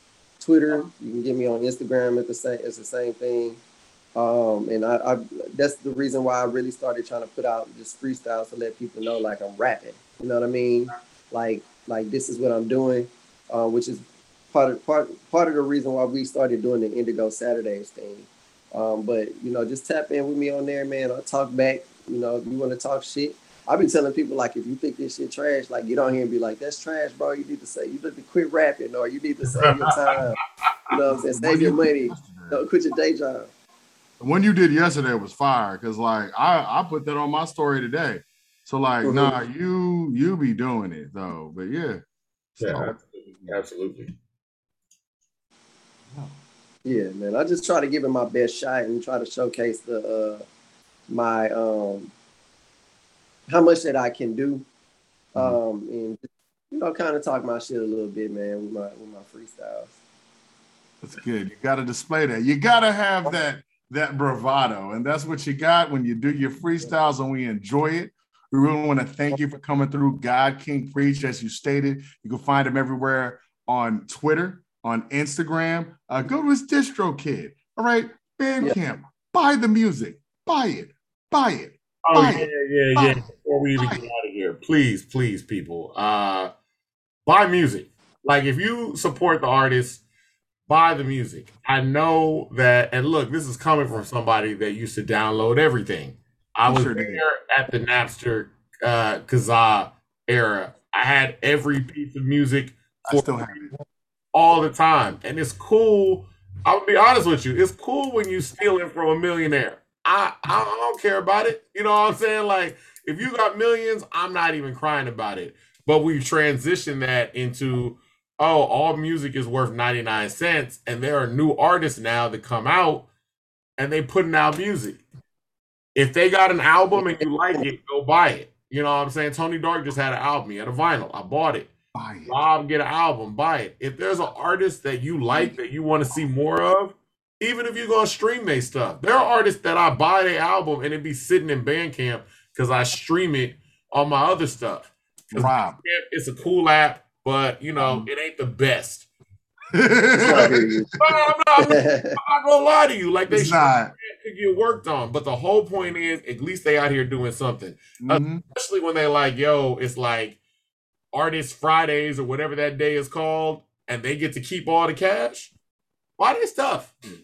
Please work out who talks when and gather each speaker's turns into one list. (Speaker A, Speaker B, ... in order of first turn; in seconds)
Speaker A: 0.4-3.6, 4.2-33.5, 39.0-39.4, 46.9-50.5, 51.1-52.1, 53.5-54.7, 55.3-60.0, 127.0-127.6, 150.2-150.9, 151.6-152.2
Speaker B: 31.1-32.6, 34.2-42.0, 42.6-43.6, 46.1-46.4, 61.0-83.2, 83.8-84.0, 96.7-97.2, 103.0-103.7, 131.9-132.4, 145.3-145.8, 147.8-148.1, 149.7-151.2, 153.3-153.9, 158.0-158.4
Speaker C: 42.6-44.1, 82.0-86.5, 87.3-90.0, 90.7-103.6, 104.3-123.1, 123.8-125.0, 126.0-131.7, 132.3-149.1, 150.2-160.4, 161.1-165.5, 166.2-166.9